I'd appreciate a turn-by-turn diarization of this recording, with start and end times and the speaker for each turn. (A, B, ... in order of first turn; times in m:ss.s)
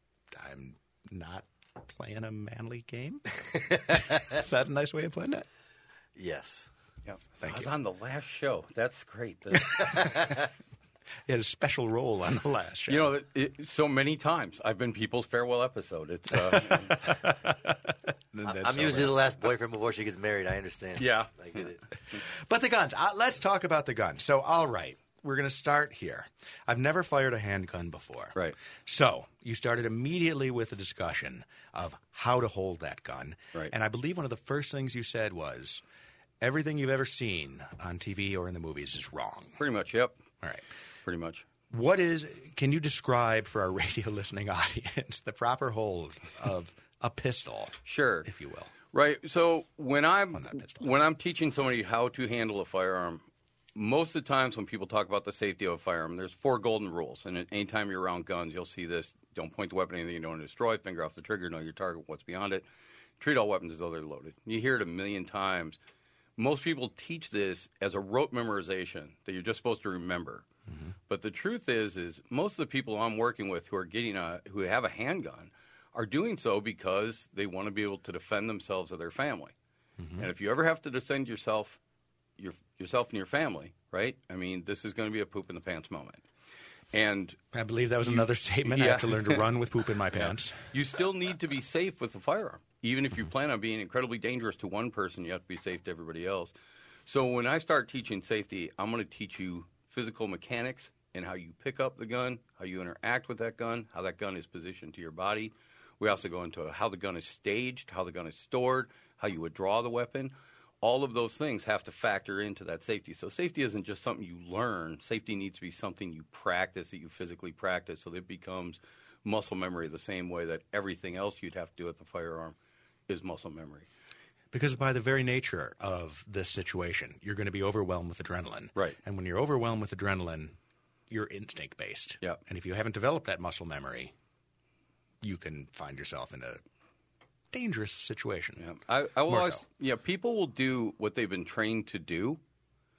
0:00.3-0:05.5 A
0:06.2-0:06.7 B
0:07.1-0:10.2 C
0:07.4-0:07.7 A
0:09.8-0:10.4 B
0:11.3-0:13.1 A
0:12.9-0:17.2 C
0:16.3-0:19.2 A
0:18.4-0:21.8 B
0:21.0-0:21.3 C
0:22.2-0:35.8 A
0:36.4-0:39.6 A
0:39.6-0:40.2 C
0:41.1-0:41.4 C
0:41.7-0:48.7 A
0:47.8-0:48.3 C
0:48.9-0:53.2 C
0:50.3-0:50.9 A
0:53.8-1:02.7 C
1:03.2-1:05.8 C
1:06.4-1:10.4 C
1:10.7-1:10.9 A
1:11.1-1:19.5 C
1:20.0-1:20.3 A
1:20.2-1:21.8 C
1:22.4-1:26.2 C
1:26.9-1:27.4 C
1:27.5-1:30.7 A
1:28.0-1:29.5 C
1:30.1-1:36.5 C
1:37.1-2:02.6 C
2:03.1-2:03.9 C
2:04.5-2:10.6 A
2:11.1-2:14.1 A
2:15.2-2:16.6 A
2:17.5-2:18.6 A
2:18.6-2:22.4 C
2:19.3-2:19.6 A